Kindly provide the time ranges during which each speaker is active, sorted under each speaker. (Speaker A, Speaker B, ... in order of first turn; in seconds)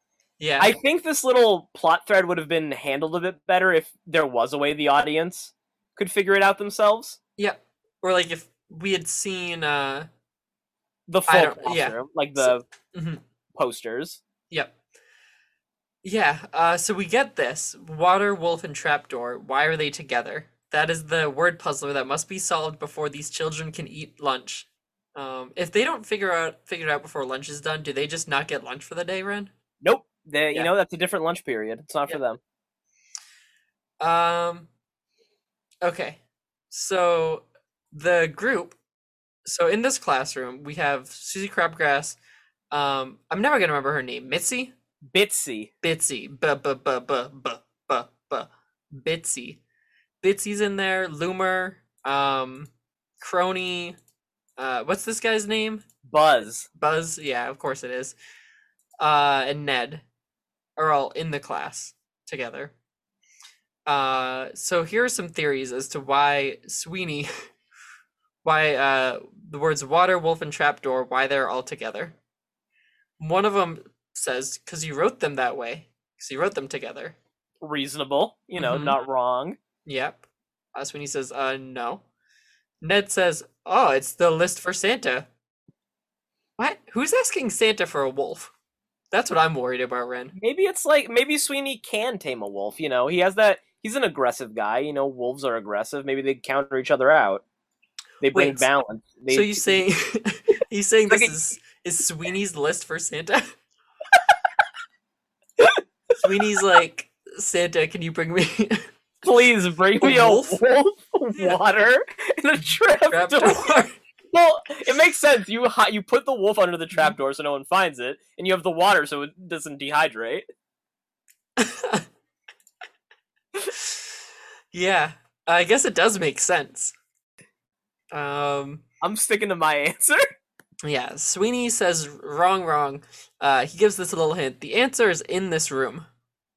Speaker A: 0.4-0.8, 7.4-10.1, 11.3-13.2, 14.5-14.8, 16.0-29.5, 34.0-34.7, 35.8-36.2, 36.7-38.8, 39.4-42.2, 42.7-44.7, 45.8-49.6, 50.2-54.0, 54.6-55.8, 56.8-58.1, 59.0-60.0, 60.8-62.7, 63.9-67.3, 68.4-72.2, 73.2-77.2, 78.6-79.0, 79.8-82.0, 82.8-85.3, 86.6-88.5, 89.1-90.3, 98.3-98.7, 99.3-103.5, 106.2-108.9, 110.0-110.6, 113.1-114.0, 121.6-122.0, 123.7-124.1, 124.7-126.9, 128.1-128.8, 130.8-136.1
Speaker B: 0.6-7.2, 11.1-12.6, 13.5-14.2, 29.8-32.4, 45.1-45.7, 56.0-56.7, 77.6-79.6, 90.3-97.4, 98.2-99.8, 109.2-113.7, 114.3-120.4, 129.0-130.2